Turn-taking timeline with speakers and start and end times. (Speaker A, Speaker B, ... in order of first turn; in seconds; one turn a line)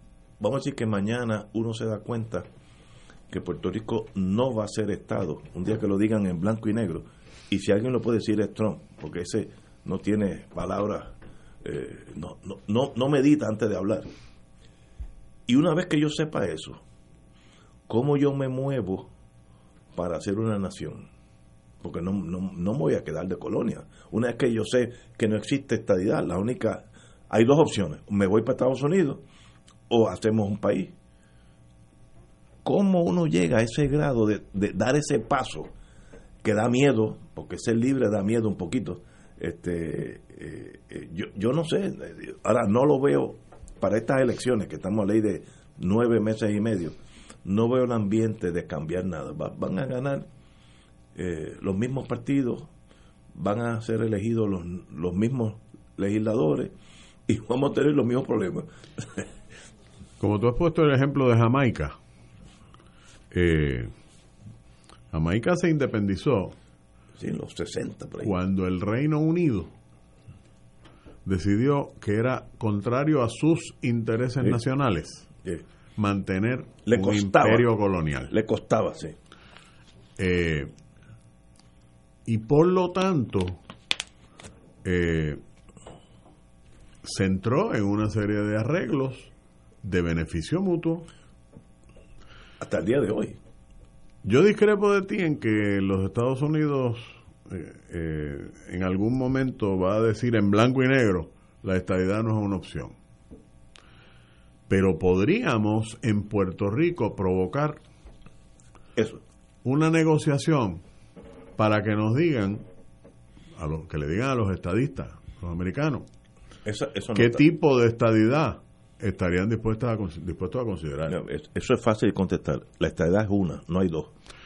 Speaker A: 0.4-2.5
Speaker A: 3.3-11.1
Speaker A: 11.6-14.1
Speaker A: 15.5-16.8
Speaker A: 17.9-19.1
Speaker A: 19.9-21.1
Speaker A: 21.8-29.2
Speaker A: 29.9-30.9
Speaker A: 32.6-35.7
Speaker A: 36.4-50.2
Speaker A: 51.1-52.7
Speaker A: 53.3-56.7
Speaker A: 57.3-59.2
Speaker B: 60.2-61.9
Speaker B: 63.3-63.9
Speaker B: 65.1-66.5
Speaker A: 67.2-68.3
Speaker B: 68.2-69.7
Speaker B: 71.2-75.3
Speaker B: 76.0-78.3
Speaker A: 76.8-77.7
Speaker A: 78.3-79.2
Speaker B: 80.2-80.7
Speaker B: 82.2-83.6
Speaker B: 84.8-85.4
Speaker B: 87.0-89.3
Speaker B: 89.8-91.1
Speaker A: 92.6-93.4
Speaker B: 94.2-102.9
Speaker B: 104.7-107.8
Speaker A: 109.0-109.2
Speaker B: 109.6-110.8
Speaker B: 111.6-112.6
Speaker B: 113.6-116.1
Speaker A: 116.6-117.4
Speaker B: 117.1-121.2
Speaker A: 121.1-124.1